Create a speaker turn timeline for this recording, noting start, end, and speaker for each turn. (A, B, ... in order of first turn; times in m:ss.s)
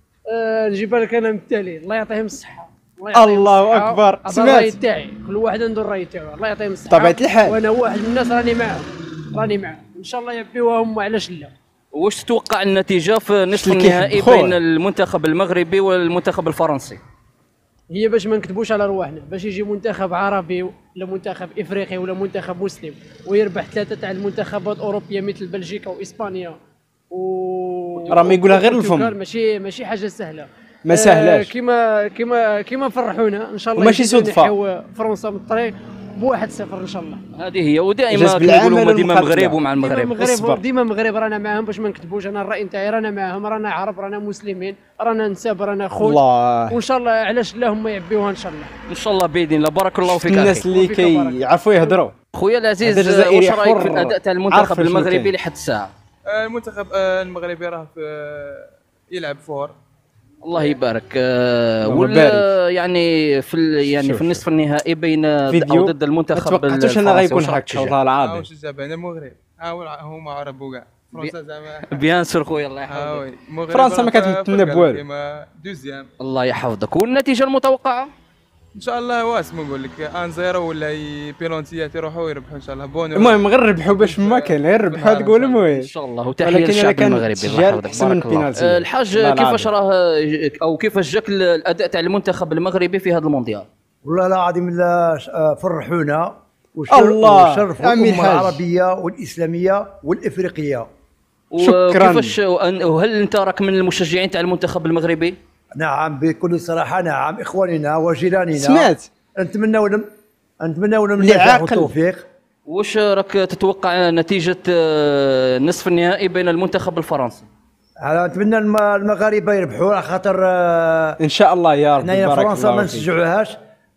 0:00.3-0:11.5 A
0:03.1-0:04.8 B
0:06.9-0:07.6 B
0:11.9-0:17.0 C
0:13.5-0:14.6 B
0:17.9-0:26.6 A
0:27.1-0:37.2 A
0:28.1-0:29.2 B
0:30.8-0:31.5 B
0:33.7-0:34.5 B
0:37.4-0:40.1 C
0:38.1-0:39.6 B
0:39.8-0:48.7 A
0:40.2-0:40.6 B
0:46.0-0:46.8 B
0:48.9-0:50.6 C
0:50.0-0:52.1 B
0:50.6-0:52.0 A
0:52.3-0:55.9 C
0:52.8-0:55.3 B
0:56.3-0:59.7 D
1:00.4-1:07.9 C
1:01.8-1:02.5 B
1:04.0-1:04.4 B
1:05.5-1:08.5 B
1:08.2-1:12.0 D
1:11.9-1:13.2 C
1:12.9-1:16.1 D
1:13.7-1:15.0 B
1:16.2-1:18.1 C
1:18.7-1:25.6 D
1:23.1-1:25.9 B
1:25.7-1:33.6 C
1:26.4-1:29.7 B
1:34.0-1:40.9 E
1:36.9-1:38.6 B
1:41.5-1:45.4 C
1:41.6-1:42.3 B
1:45.8-1:50.0 E
1:48.5-1:49.1 B
1:50.6-1:52.2 E
1:51.2-1:51.9 B
1:52.7-1:57.5 C
1:58.0-2:01.2 E
2:01.2-2:03.1 B
2:02.0-2:03.6 E